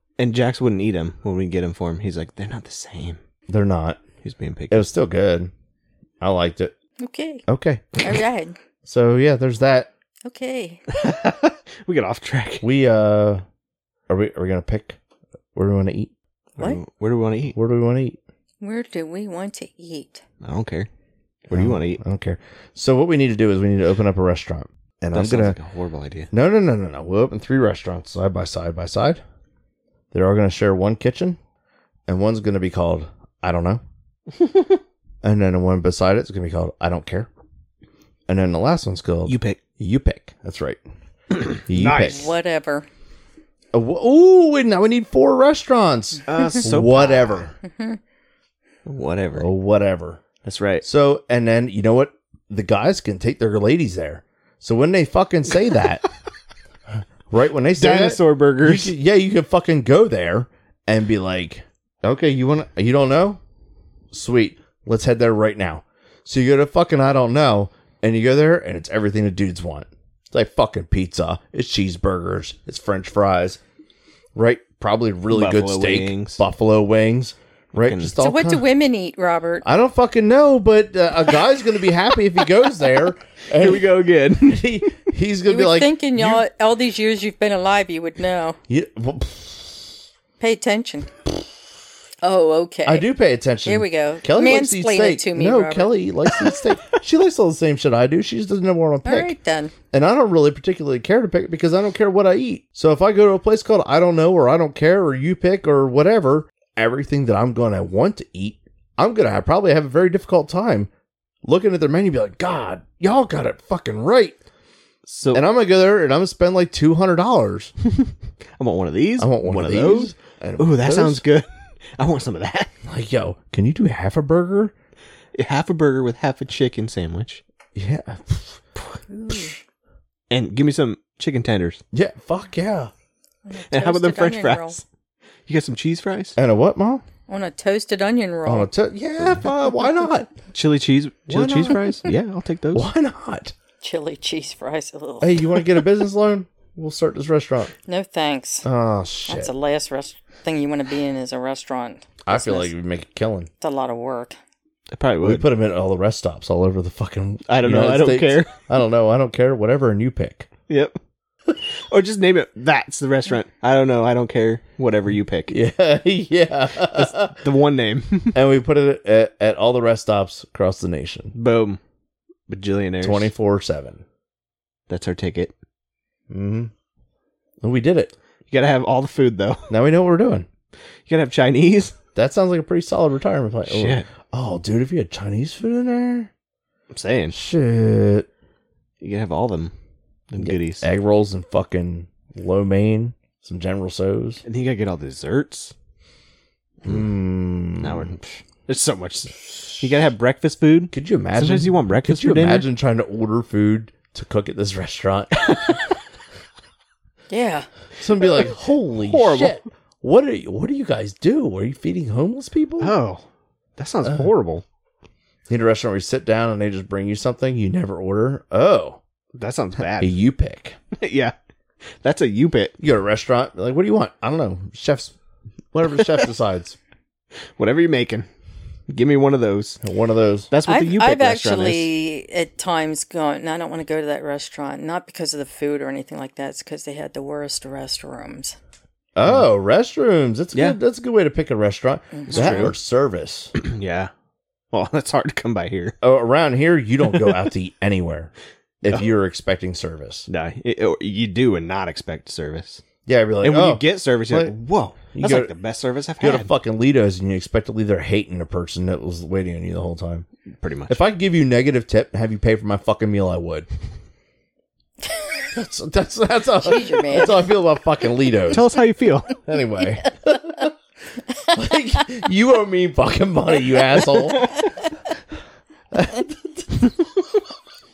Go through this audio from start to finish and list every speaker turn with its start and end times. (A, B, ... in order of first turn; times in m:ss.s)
0:00.2-0:03.2 A
0:03.5-0:04.0 B
0:04.2-0:04.9 A
0:04.7-0:05.5 B
0:06.2-0:06.7 B
0:07.0-0:07.5 C
0:07.5-0:08.0 B
0:08.0-0:08.6 C
0:08.8-0:09.9 B
0:10.3-0:10.8 C
0:10.9-0:12.7 A
0:12.6-0:13.4 B
0:14.1-0:15.0 B
0:15.6-0:16.1 B
0:16.6-0:17.6 A
0:17.5-0:18.2 B
0:18.6-0:20.2 C
0:20.4-0:20.9 A
0:21.5-0:22.0 A
0:21.5-0:25.6 B
0:25.1-0:26.3 A
0:26.3-0:29.2 B
0:30.1-0:31.4 B
0:32.1-0:33.8 B
0:35.2-0:37.3 B
0:38.3-0:40.8 B
0:39.3-0:39.6 A
0:41.3-0:42.3 A
0:41.7-0:42.3 B
0:42.0-0:42.9 C
0:43.7-0:47.5 B
0:46.3-0:47.5 A
0:48.9-0:49.5 A
0:49.4-0:50.2 B
0:50.4-0:50.8 A
0:50.8-0:56.0 B
0:57.3-1:03.4 B
0:57.8-0:58.9 A
1:04.1-1:13.6 B
1:14.4-1:18.6 B
1:15.3-1:16.4 A
1:17.8-1:18.1 A
1:18.2-1:19.7 C
1:19.6-1:23.9 B
1:23.6-1:25.0 A
1:24.4-1:26.4 B
1:25.5-1:28.6 C
1:28.7-1:29.9 B
1:30.4-1:31.1 C
1:32.2-1:33.1 C
1:32.9-1:39.3 B
1:33.6-1:36.0 C
1:39.0-1:39.7 C
1:39.9-1:50.9 B
1:51.4-1:54.4 B
1:55.1-1:55.4 A
1:55.3-1:57.7 B
1:57.9-2:02.7 A
1:59.2-2:01.2 B
2:02.8-2:04.7 B
2:05.4-2:07.4 A
2:07.8-2:08.6 B
2:09.1-2:09.5 C
2:10.3-2:11.8 A
2:11.9-2:12.9 B
2:13.5-2:14.8 C
2:13.7-2:14.8 A
2:15.5-2:16.4 A
2:16.4-2:17.0 B
2:17.3-2:18.7 C
2:18.5-2:20.3 B
2:20.5-2:22.9 A
2:21.3-2:22.1 B
2:22.7-2:23.5 B
2:23.8-2:25.5 C
2:25.2-2:27.7 B
2:27.9-2:28.7 C
2:28.6-2:29.5 B
2:29.3-2:32.7 C
2:32.2-2:33.5 B
2:33.6-2:34.4 C
2:34.9-2:35.5 A
2:35.2-2:40.5 B
2:37.5-2:38.6 A
2:40.7-2:41.0 A
2:41.9-2:45.6 A
2:45.5-2:47.4 B
2:47.3-2:48.4 A
2:48.3-2:51.3 B
2:51.3-2:51.8 A
2:52.5-2:53.3 A
2:53.0-2:54.0 B
2:54.9-2:55.5 A
2:56.3-2:56.7 B
2:57.6-2:58.1 B
2:58.5-2:59.7 A
2:59.7-3:00.5 B
3:01.1-3:02.0 A
3:02.2-3:06.3 B
3:03.7-3:04.1 A
3:06.9-3:07.4 A
3:07.3-3:08.3 B
3:09.0-3:09.7 A
3:10.3-3:10.8 A
3:10.4-3:14.4 B
3:14.4-3:15.7 A
3:16.8-3:18.1 B
3:17.8-3:22.7 A
3:20.9-3:25.8 B
3:27.3-3:27.7 C
3:28.0-3:32.9 B
3:28.4-3:29.6 A
3:32.8-3:33.2 A
3:33.8-3:34.6 A
3:35.5-3:39.0 B
3:39.4-3:40.1 A
3:40.0-3:40.8 B
3:41.0-3:41.3 A
3:42.0-3:42.7 A
3:42.8-3:45.1 B
3:45.7-3:46.8 B
3:47.6-3:48.3 A
3:48.9-3:49.8 A
3:49.8-3:50.5 B
3:50.5-3:51.9 A
3:50.7-3:58.6 C
3:59.2-4:03.5 B
4:02.1-4:02.7 C
4:02.3-4:02.7 A
4:03.6-4:04.1 A
4:04.7-4:06.0 A
4:06.0-4:08.3 B
4:08.8-4:10.3 B
4:10.3-4:12.8 A
4:13.1-4:14.5 B
4:13.4-4:16.5 A
4:15.1-4:15.5 B
4:16.2-4:20.3 B
4:20.6-4:21.0 A
4:20.9-4:23.7 B
4:25.5-4:28.6 B
4:26.6-4:27.4 C
4:28.5-4:29.4 A
4:29.5-4:30.7 B
4:31.5-4:34.6 B
4:35.9-4:37.1 B